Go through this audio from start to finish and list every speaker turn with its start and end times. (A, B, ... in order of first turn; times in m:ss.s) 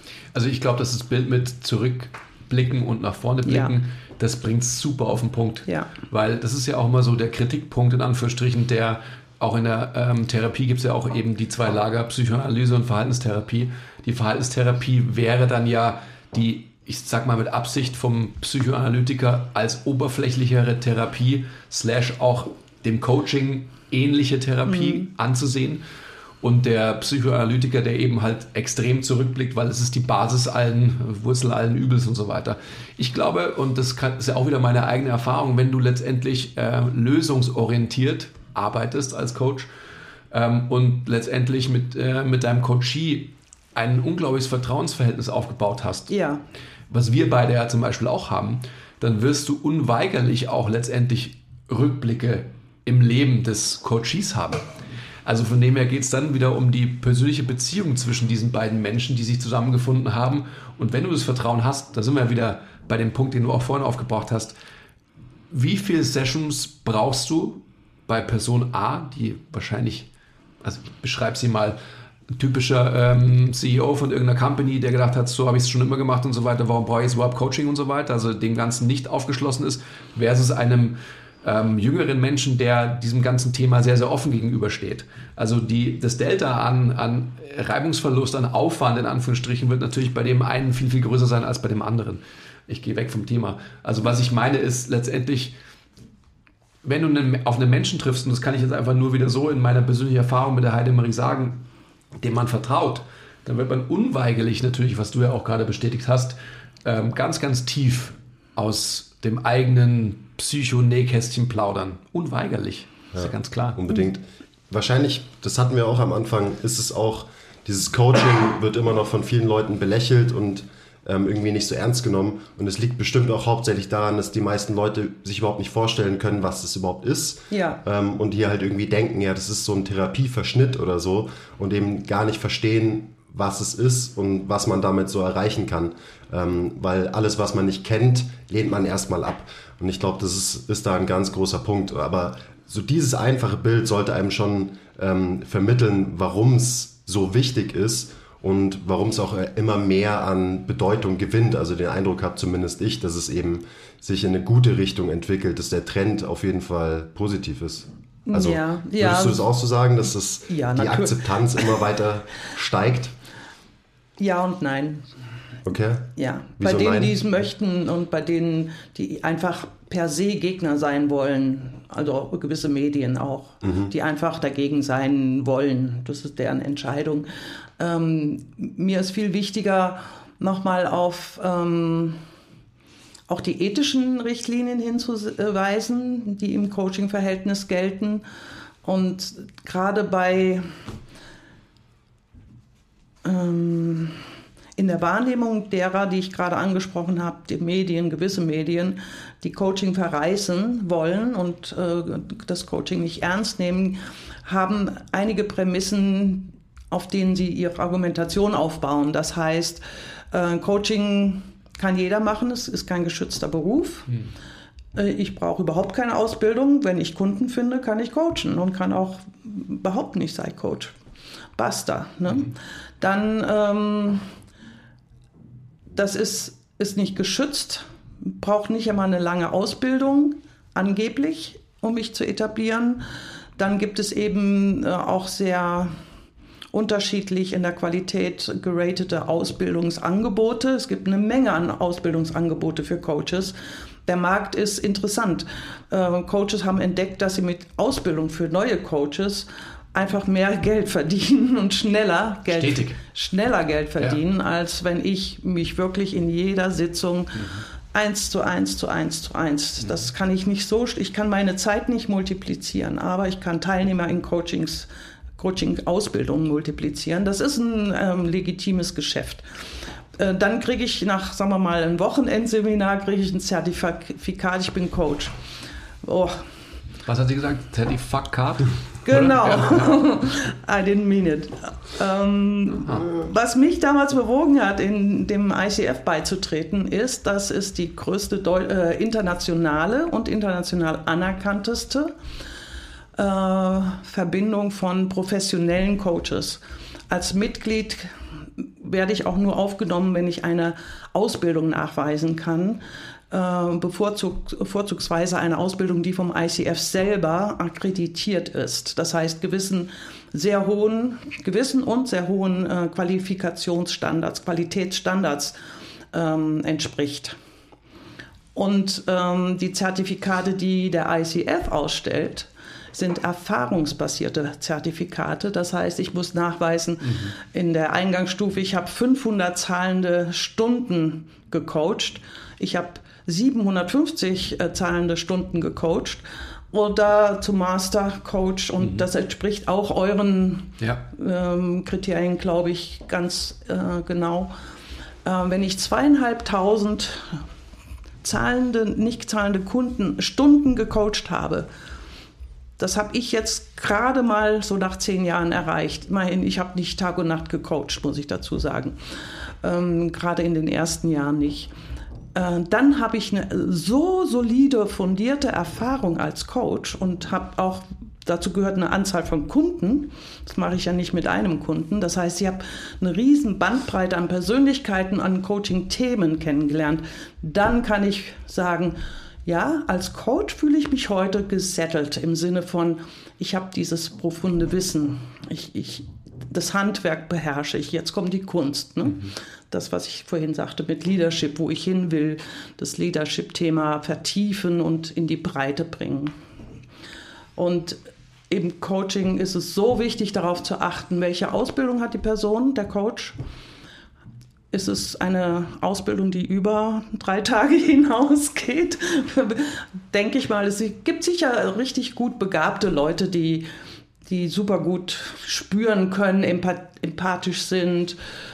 0:00.3-0:25.8 A
0:03.4-0:03.7 B
0:24.7-0:25.0 B
0:26.4-0:39.7 A
0:40.3-0:46.1 A
0:46.1-0:46.4 B
0:46.9-0:54.6 A
0:55.2-1:04.6 A
1:05.5-1:10.1 A
1:10.6-1:11.8 A
1:12.3-1:35.5 A
1:36.8-1:41.6 A
1:42.2-1:53.8 A
1:53.1-2:43.1 C
2:07.5-2:07.8 B
2:38.3-2:39.4 B
2:40.5-2:41.8 B
2:44.2-2:45.0 B
2:45.6-2:47.2 C
2:46.2-2:57.3 B
2:53.6-2:53.9 C
2:57.8-3:02.2 B
3:03.3-3:08.2 B
3:08.8-3:10.7 B
3:13.2-3:14.2 B
3:14.8-3:34.1 B
3:34.9-3:40.9 B
3:41.6-3:44.2 B
3:45.9-3:53.0 B
3:53.6-3:55.9 B
3:56.7-4:03.5 B
4:04.0-4:29.5 B
4:12.5-4:13.0 A
4:30.2-4:35.3 B
4:36.0-4:36.4 B
4:37.0-4:39.9 A
4:39.1-4:52.1 B
4:53.2-5:15.6 B
5:16.1-5:17.4 B
5:18.5-5:44.5 B
5:27.0-5:27.3 A
5:38.8-5:39.0 A
5:45.2-5:47.4 B
5:48.2-5:51.7 B
5:52.8-5:59.0 B
5:59.6-6:01.7 B
6:02.3-6:36.3 B
6:37.6-6:43.4 B
6:44.7-6:53.7 B
6:54.2-6:58.2 B